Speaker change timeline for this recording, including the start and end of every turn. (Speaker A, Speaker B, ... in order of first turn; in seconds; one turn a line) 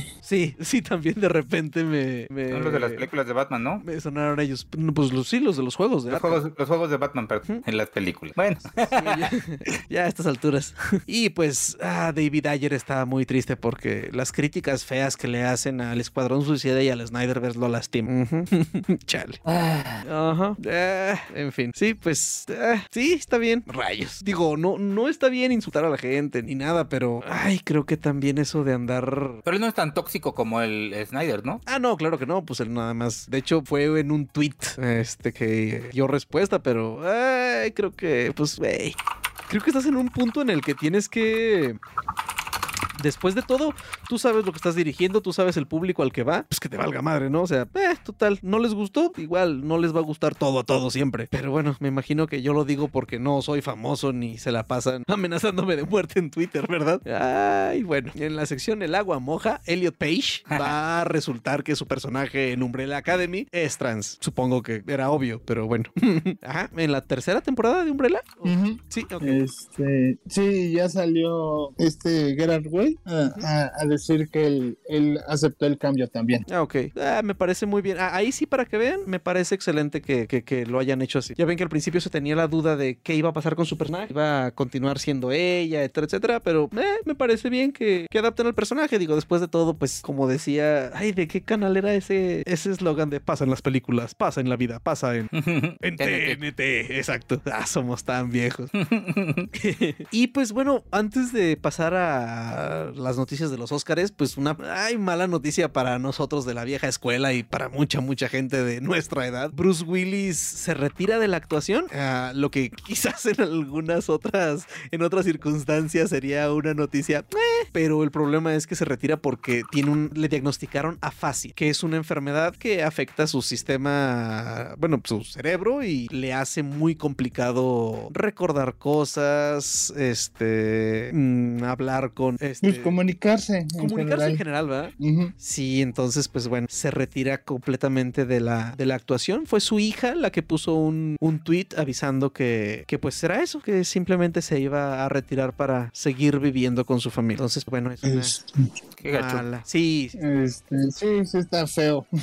Speaker A: 0.2-3.1
Speaker B: 2.5-3.8
Speaker A: 3.8-6.4
Speaker B: 6.1-9.7
Speaker A: 8.8-19.4
Speaker B: 19.4-20.0
Speaker A: 20.0-29.4
Speaker B: 29.4-31.6
Speaker A: 31.6-39.0
Speaker A: 39.5-41.8
Speaker A: 42.9-69.4
Speaker B: 60.5-60.8
Speaker C: 68.4-76.4
Speaker A: 76.5-95.3
Speaker B: 95.3-96.4
Speaker A: 95.8-98.7
Speaker B: 98.7-99.5
Speaker A: 99.5-132.9
Speaker C: 132.6-134.4
Speaker A: 133.8-148.4
Speaker C: 135.0-135.3
Speaker C: 148.0-148.7
Speaker B: 149.0-149.4
Speaker A: 149.1-150.2
Speaker C: 150.2-152.1